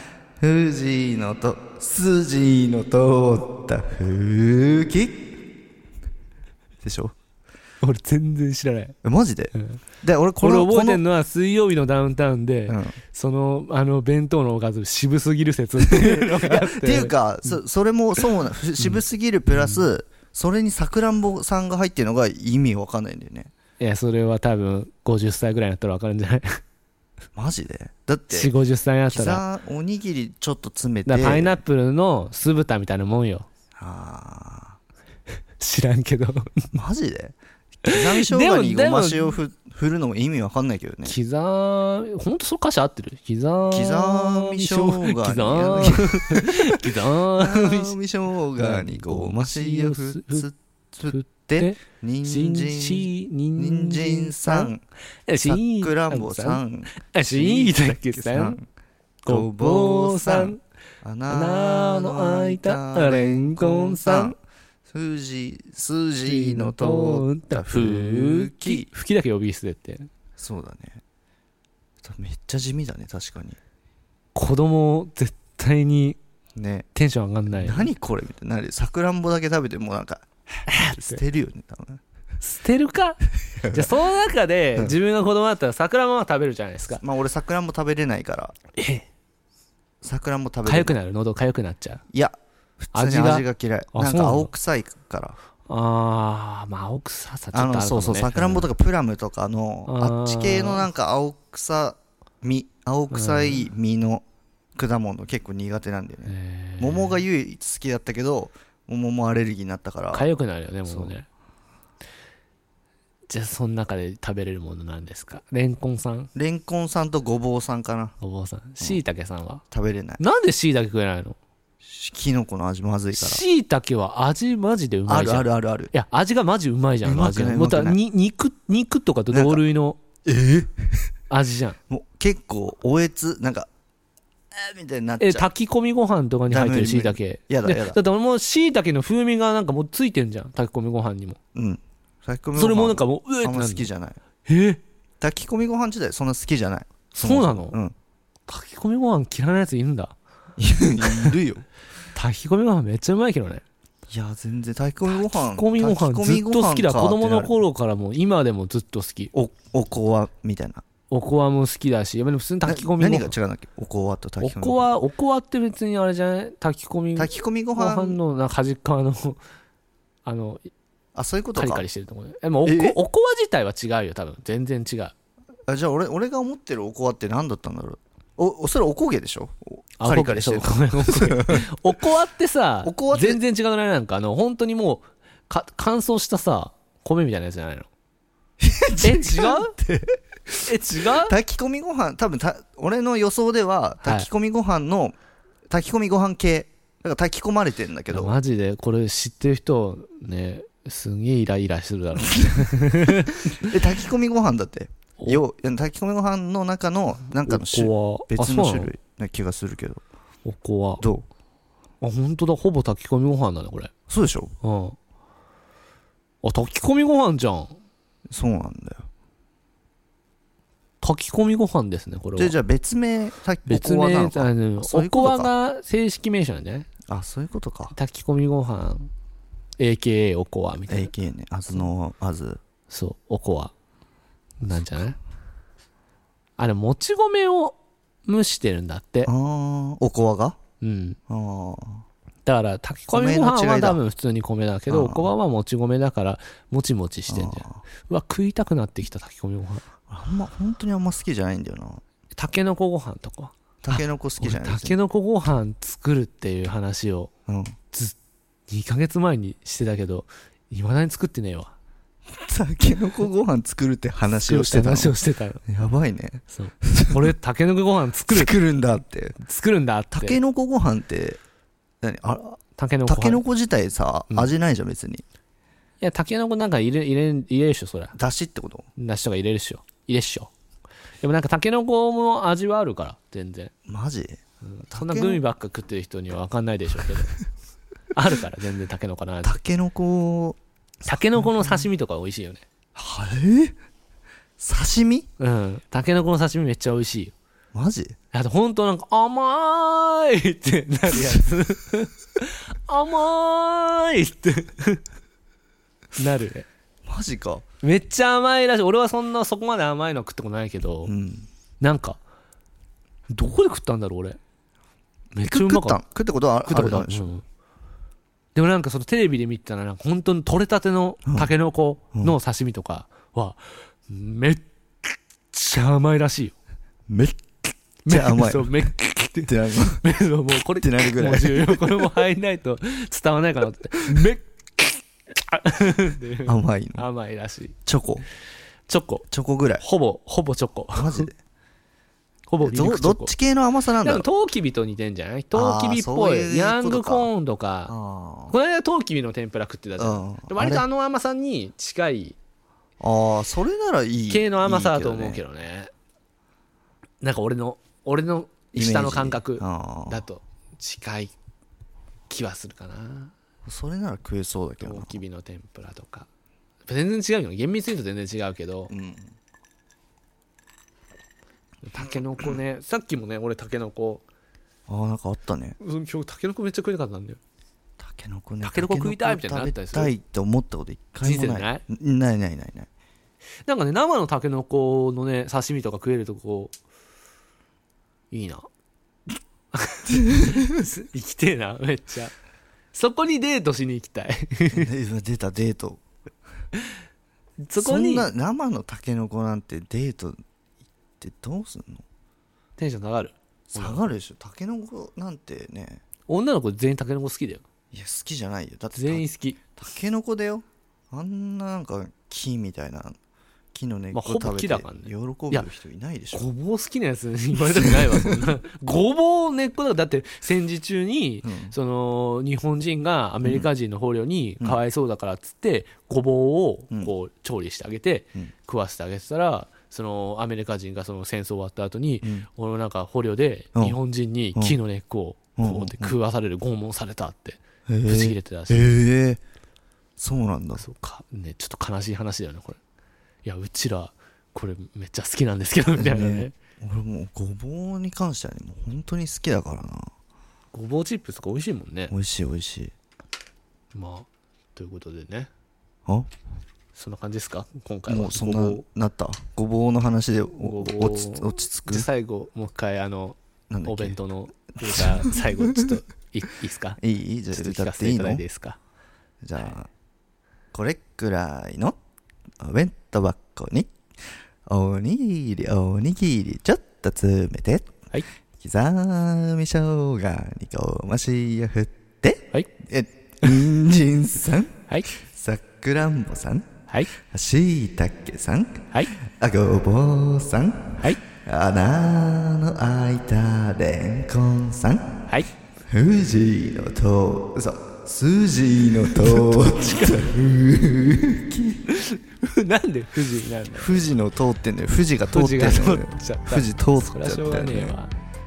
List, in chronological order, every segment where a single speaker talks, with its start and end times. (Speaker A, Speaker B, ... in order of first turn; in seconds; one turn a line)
Speaker A: 0.4-5.3
Speaker A: 6.8-7.1
Speaker B: 7.8-9.0
Speaker A: 9.0-11.0
Speaker B: 9.5-9.8
Speaker B: 10.4-17.6
Speaker A: 12.7-13.0
Speaker A: 15.8-23.5
Speaker B: 18.2-19.9
Speaker B: 23.8-26.6
Speaker A: 27.3-28.5
Speaker B: 28.3-29.4
Speaker A: 29.1-31.6
Speaker B: 31.1-33.5
Speaker A: 33.8-34.8
Speaker B: 35.6-36.6
Speaker A: 36.7-41.1
Speaker B: 37.9-39.4
Speaker B: 41.0-47.9
Speaker A: 43.7-54.8
Speaker B: 48.5-50.5
Speaker B: 51.0-54.7
Speaker B: 55.3-58.6
Speaker A: 55.4-58.6
Speaker B: 59.2-60.6
Speaker A: 59.2-68.9
Speaker B: 61.3-64.3
Speaker B: 66.2-70.1
Speaker A: 70.4-71.0
Speaker A: 72.0-73.6
Speaker B: 74.3-76.2
Speaker A: 76.5-76.9
Speaker B: 76.9-77.9
Speaker A: 77.5-82.0
Speaker B: 80.7-81.2
Speaker B: 82.4-87.0
Speaker A: 83.6-83.9
Speaker A: 87.0-88.5
Speaker B: 88.8-89.1
Speaker A: 90.0-91.0
Speaker B: 90.6-92.0
Speaker A: 92.1-95.4
Speaker B: 92.9-94.5
Speaker B: 95.7-98.7
Speaker A: 97.5-104.2
Speaker B: 99.9-100.9
Speaker B: 103.1-103.7
Speaker A: 104.8-110.3
Speaker B: 106.2-107.2
Speaker B: 110.1-111.3
Speaker A: 110.8-111.1
Speaker B: 113.3-116.3
Speaker A: 116.3-118.1
Speaker B: 118.2-119.6
Speaker A: 119.7-120.2
Speaker B: 120.2-121.4
Speaker A: 121.8-123.4
Speaker B: 123.1-130.0
Speaker A: 125.1-125.9
Speaker A: 127.0-128.0
Speaker A: 129.3-129.6
Speaker A: 130.2-130.9
Speaker B: 131.3-131.8
Speaker A: 131.9-133.7
Speaker A: 134.5-135.5
Speaker B: 135.2-141.4
Speaker A: 136.5-138.0
Speaker A: 141.5-144.2
Speaker B: 142.5-143.9
Speaker B: 144.4-144.8
Speaker A: 145.2-147.9
Speaker B: 147.1-147.8
Speaker B: 148.5-150.2
Speaker A: 150.6-151.6
Speaker B: 151.0-151.3
Speaker B: 152.1-153.6
Speaker A: 154.1-157.6
Speaker B: 155.1-159.3
Speaker A: 159.3-160.8
Speaker B: 161.1-163.3
Speaker A: 162.6-164.9
Speaker B: 164.4-169.4
Speaker A: 167.2-168.2
Speaker B: 170.2-170.7
Speaker A: 171.1-171.8
Speaker B: 171.6-175.1
Speaker A: 172.6-173.0
Speaker A: 175.7-181.7
Speaker B: 180.0-187.9
Speaker A: 182.8-183.4
Speaker A: 188.6-195.2
Speaker B: 189.0-189.7
Speaker B: 190.6-191.3
Speaker B: 194.0-194.3
Speaker A: 195.7-198.3
Speaker B: 198.1-203.7
Speaker A: 202.2-210.0
Speaker B: 207.4-208.9
Speaker B: 210.4-211.0
Speaker A: 211.0-211.2
Speaker B: 212.0-213.9
Speaker A: 214.1-214.5
Speaker B: 214.6-215.0
Speaker B: 216.4-217.8
Speaker A: 218.3-219.1
Speaker B: 221.0-222.6
Speaker A: 222.3-225.5
Speaker B: 223.7-226.9
Speaker A: 227.1-227.9
Speaker B: 227.9-229.1
Speaker B: 229.8-231.1
Speaker A: 230.9-232.6
Speaker B: 232.9-233.7
Speaker B: 234.6-235.2
Speaker B: 236.6-239.3
Speaker A: 239.2-240.6
Speaker B: 240.8-241.2
Speaker A: 241.3-242.1
Speaker B: 242.4-249.8
Speaker A: 243.1-244.0
Speaker A: 244.9-245.3
Speaker A: 247.3-247.8
Speaker A: 250.1-252.0
Speaker B: 252.3-257.3
Speaker A: 253.8-255.0
Speaker A: 257.5-257.8
Speaker B: 258.7-261.7
Speaker A: 262.3-267.3
Speaker B: 264.3-265.6
Speaker B: 266.5-268.5
Speaker A: 268.3-269.4
Speaker B: 269.4-270.4
Speaker A: 270.1-271.4
Speaker A: 272.0-275.2
Speaker B: 272.8-273.4
Speaker B: 276.0-278.1
Speaker A: 278.1-278.9
Speaker B: 279.0-280.5
Speaker B: 281.2-283.7
Speaker A: 283.9-284.4
Speaker B: 284.6-287.4
Speaker A: 284.9-285.4
Speaker B: 288.1-289.6
Speaker A: 289.4-290.6
Speaker B: 291.0-292.6
Speaker A: 291.4-291.8
Speaker A: 292.9-293.8
Speaker A: 294.6-295.3
Speaker B: 295.4-297.3
Speaker A: 297.7-298.1
Speaker B: 298.3-305.0
Speaker A: 301.1-301.4
Speaker B: 306.2-306.7
Speaker A: 307.1-307.6
Speaker B: 307.8-311.1
Speaker A: 311.1-311.5
Speaker B: 311.8-312.2
Speaker B: 313.3-314.4
Speaker B: 315.3-316.0
Speaker A: 315.4-317.3
Speaker B: 316.6-317.4
Speaker B: 318.5-326.5
Speaker A: 321.2-321.5
Speaker A: 327.1-327.4
Speaker B: 328.1-337.7
Speaker A: 328.1-328.9
Speaker A: 329.4-330.0
Speaker A: 330.8-332.2
Speaker A: 336.4-337.1
Speaker A: 337.9-338.2
Speaker B: 338.9-339.2
Speaker A: 339.3-339.8
Speaker B: 339.8-341.3
Speaker A: 340.9-341.3
Speaker B: 342.5-343.3
Speaker A: 342.6-344.2
Speaker B: 344.0-347.9
Speaker A: 345.5-347.3
Speaker A: 347.9-348.6
Speaker B: 348.5-352.4
Speaker A: 350.0-350.9
Speaker A: 353.0-355.4
Speaker B: 354.3-355.9
Speaker B: 357.2-361.3
Speaker A: 358.7-360.2
Speaker B: 362.3-363.3
Speaker A: 363.6-365.2
Speaker B: 364.8-366.3
Speaker B: 366.9-368.9
Speaker A: 368.9-369.3
Speaker B: 371.8-374.2
Speaker A: 374.9-375.8
Speaker B: 375.8-377.4
Speaker A: 378.0-382.9
Speaker B: 378.6-380.1
Speaker B: 381.2-381.8
Speaker B: 383.6-386.7
Speaker B: 388.3-388.7
Speaker B: 389.7-392.3
Speaker A: 390.1-390.8
Speaker B: 392.9-394.9
Speaker A: 394.7-396.0
Speaker B: 397.6-398.3
Speaker A: 397.8-400.4
Speaker A: 401.2-402.0
Speaker B: 402.8-404.1
Speaker A: 403.7-406.0
Speaker B: 406.3-407.6
Speaker A: 407.9-413.1
Speaker B: 408.9-409.6
Speaker A: 413.7-416.5
Speaker B: 414.1-415.7
Speaker B: 416.3-438.9
Speaker A: 417.8-418.4
Speaker A: 421.4-421.7
Speaker A: 423.4-423.7
Speaker A: 435.6-436.1
Speaker A: 437.9-439.4
Speaker A: 440.2-440.8
Speaker B: 440.8-442.8
Speaker B: 443.4-446.5
Speaker A: 446.0-450.1
Speaker B: 450.7-452.1
Speaker A: 452.1-452.9
Speaker B: 453.9-455.5
Speaker A: 456.1-456.3
Speaker B: 456.9-458.8
Speaker A: 458.1-462.1
Speaker B: 460.5-468.8
Speaker A: 463.7-464.2
Speaker A: 465.0-465.9
Speaker A: 467.0-468.4
Speaker A: 469.4-469.9
Speaker A: 470.7-471.9
Speaker A: 472.6-473.9
Speaker A: 474.7-478.0
Speaker A: 478.6-495.2
Speaker A: 495.9-501.9
Speaker B: 499.1-500.3
Speaker B: 501.9-504.0
Speaker A: 503.7-507.9
Speaker B: 505.3-508.1